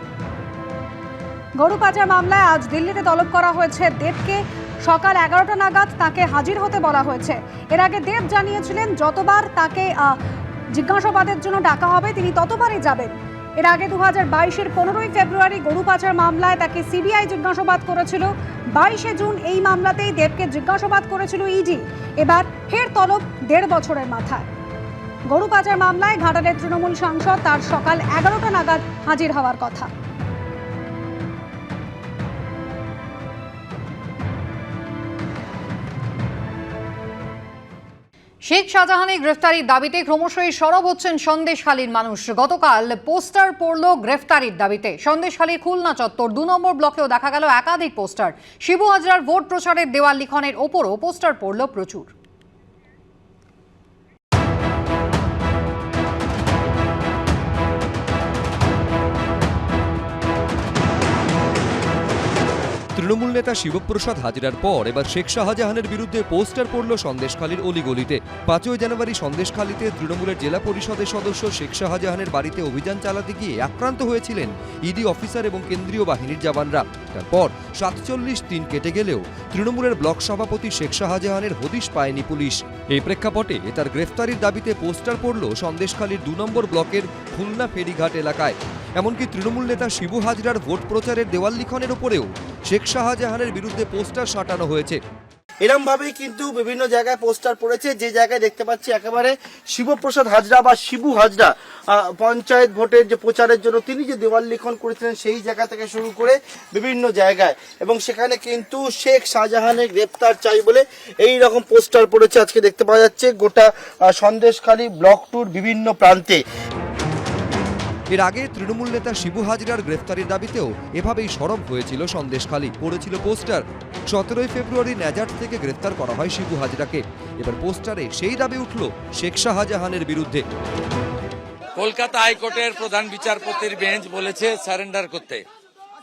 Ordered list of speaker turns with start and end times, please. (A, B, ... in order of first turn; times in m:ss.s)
0:01.6-0:10.2 A
0:10.7-0:24.5 A
0:25.3-0:29.9 A
0:38.5-0:52.1 B
1:03.0-1:35.0 C
1:35.6-1:56.4 D
1:58.1-2:10.4 C
2:11.8-2:15.5 E